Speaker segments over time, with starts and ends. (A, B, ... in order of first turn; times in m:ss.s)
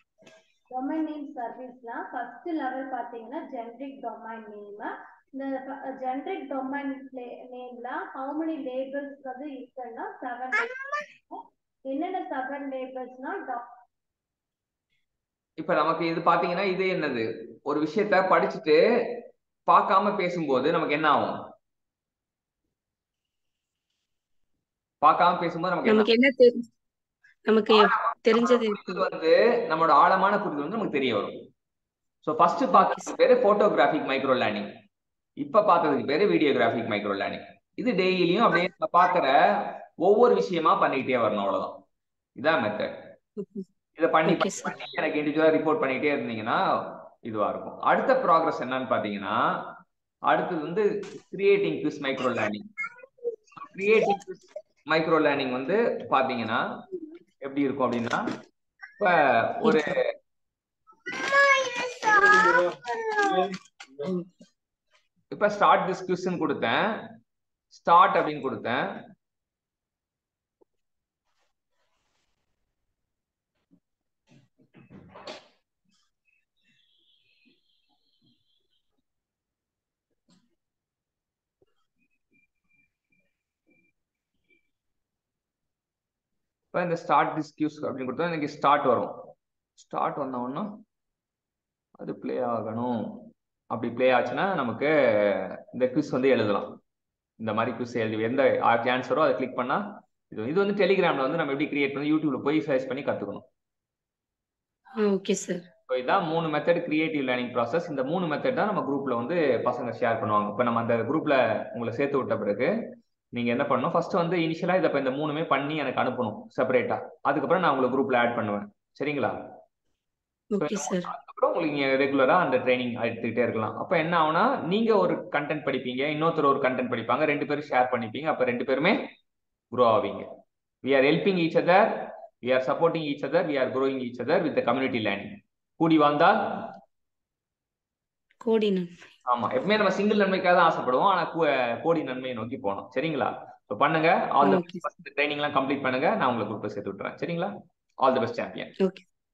0:00.7-0:13.6 A
0:15.6-0:18.8 B
0:19.7-0:21.3 B
0:25.0-0:26.1 B
0:25.8-0:26.7 C
0:27.5-0:29.1 C
0:27.7-0:31.3 B
0:32.2-0:34.7 B
0:32.8-0:33.1 C
0:35.4-0:41.7 B
0:42.4-0:42.9 B
0:43.4-0:43.6 C
0:44.0-0:46.6 B
0:44.3-0:44.8 C
0:47.2-0:49.4 B
0:50.3-0:52.6 B
0:53.6-0:56.6 B
0:57.4-0:58.2 B
0:59.0-1:00.0 B
1:05.3-1:06.8 B
1:07.7-1:08.8 B
1:26.7-1:29.1 B
1:29.8-1:30.7 B
1:32.0-1:32.9 B
1:33.7-1:36.7 B
1:37.4-1:43.4 B
1:45.0-1:45.6 C
1:45.9-1:52.7 B
1:53.3-1:59.3 B
2:00.5-2:01.1 C
2:00.6-2:09.0 B
2:09.7-2:10.3 B
2:10.8-2:11.9 B
2:12.4-2:16.4 B
2:18.4-2:18.9 C
2:19.3-2:28.7 B
2:24.4-2:24.9 C